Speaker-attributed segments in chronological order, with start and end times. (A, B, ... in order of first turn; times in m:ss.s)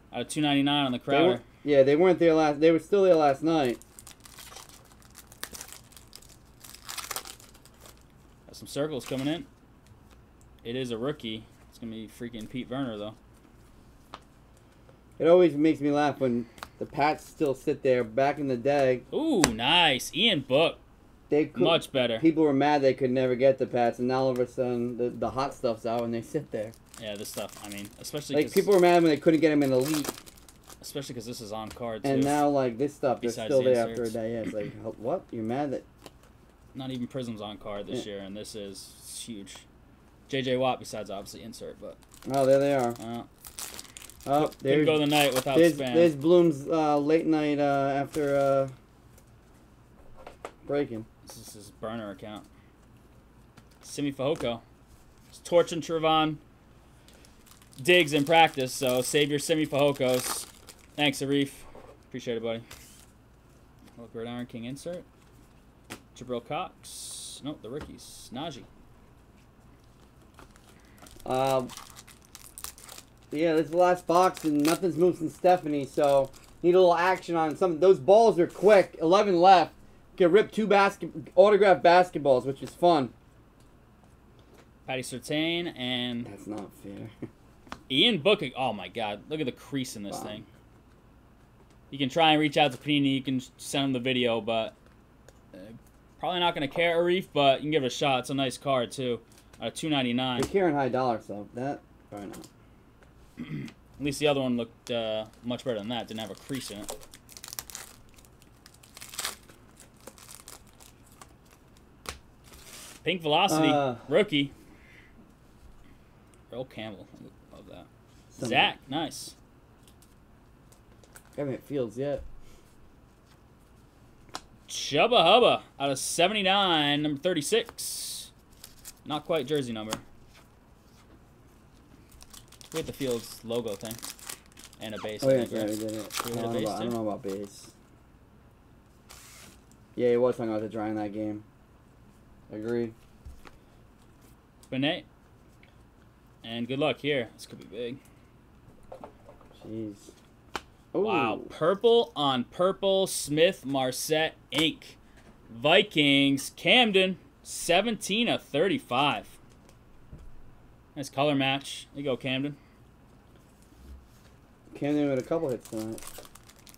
0:00.1-0:01.4 A
0:01.1-0:03.8 B
0:08.5-0:09.5 A
0:10.6-0:13.2 A
0:15.2-0:19.0 B
0:19.1-0:20.8 A
0:21.3-0:26.8 B
0:21.6-0:22.3 A
0:27.0-0:28.7 A
0:28.3-0:30.2 B
0:30.8-0:32.4 A
0:32.0-0:35.8 B
0:33.2-0:34.2 A
0:36.8-0:39.6 A
0:40.3-0:42.0 A
0:42.2-0:43.0 B
0:43.0-0:43.3 A
0:44.2-0:48.7 B
0:44.4-0:46.1 A
0:50.6-0:51.1 B
0:51.3-0:52.5 A
0:53.8-0:54.6 A
0:55.3-0:56.4 A
0:57.8-1:02.7 A
1:04.0-1:05.0 A
1:06.2-1:08.7 A
1:11.2-1:11.7 B
1:13.3-1:23.1 B
1:24.9-1:26.3 A
1:26.2-1:27.1 B
1:27.9-1:30.5 A
1:30.1-1:30.4 B
1:31.9-1:34.7 A
1:35.5-1:40.5 A
1:40.4-1:42.5 B
1:43.4-1:46.9 A
1:53.0-1:54.5 A
1:53.5-1:54.0 B
1:56.5-1:57.9 A
1:58.3-1:58.7 B
1:58.4-1:59.4 A
2:01.4-2:02.2 B
2:04.7-2:08.3 A
2:09.0-2:10.0 A
2:12.7-2:14.0 A
2:14.8-2:17.0 A
2:15.2-2:17.7 B
2:20.0-2:21.4 B
2:22.5-2:23.0 B
2:24.7-2:25.1 A
2:26.4-2:28.0 A
2:29.6-2:30.1 B
2:30.9-2:31.5 B
2:31.0-2:39.4 A
2:41.0-2:42.6 A
2:44.7-2:46.0 B